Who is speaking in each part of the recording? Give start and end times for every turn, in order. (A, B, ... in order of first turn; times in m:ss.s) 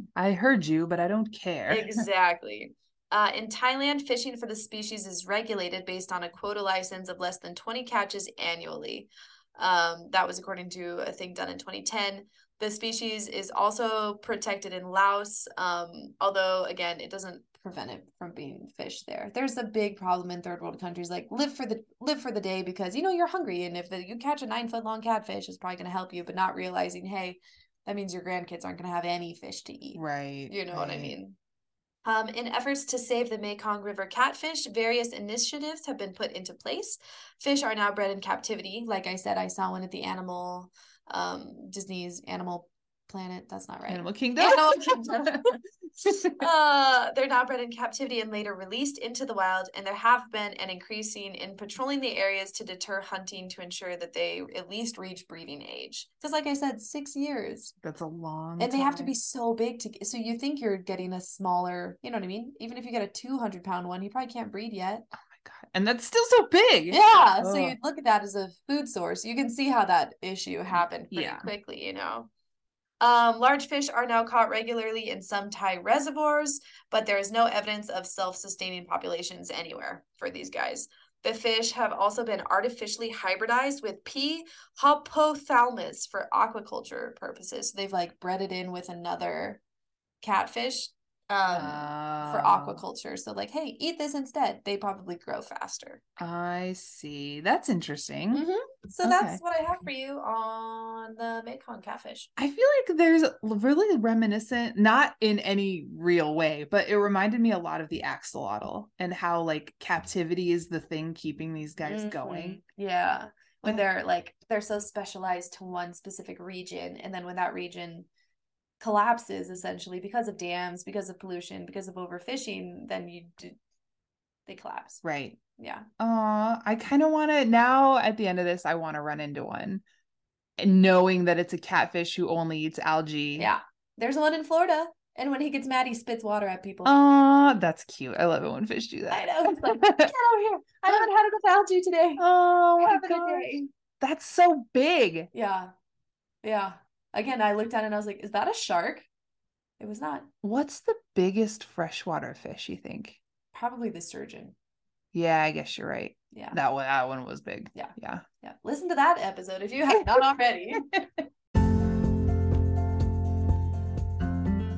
0:00.1-0:02.0 A
0:01.7-0:31.4 B
0:29.9-0:31.1 A
0:32.0-0:45.5 B
0:43.9-0:45.5 A
0:46.0-0:46.4 A
0:46.4-0:57.7 B
0:57.8-0:59.1 A
0:58.6-1:05.0 B
1:05.2-1:07.8 A
1:06.9-1:12.3 B
1:10.7-1:11.5 A
1:13.0-1:29.6 B
1:30.2-1:36.0 B
1:31.4-1:32.8 A
1:36.2-1:38.4 A
1:38.3-1:42.3 B
1:39.0-1:39.4 A
1:42.4-1:52.6 A
1:51.8-1:58.1 B
1:58.8-2:03.6 B
2:04.4-2:05.0 B
2:05.0-2:05.4 A
2:05.6-2:05.9 B
2:06.0-2:09.8 A
2:10.6-2:13.5 A
2:13.4-2:16.9 B
2:16.8-2:20.1 A
2:19.1-2:22.2 B
2:22.2-2:25.3 A
2:22.8-2:23.6 B
2:25.3-2:25.7 B
2:26.4-2:29.1 B
2:29.8-2:30.3 B
2:30.4-2:33.2 A
2:33.5-2:34.5 B
2:35.1-2:38.2 A
2:36.3-2:36.6 B
2:37.7-2:40.9 B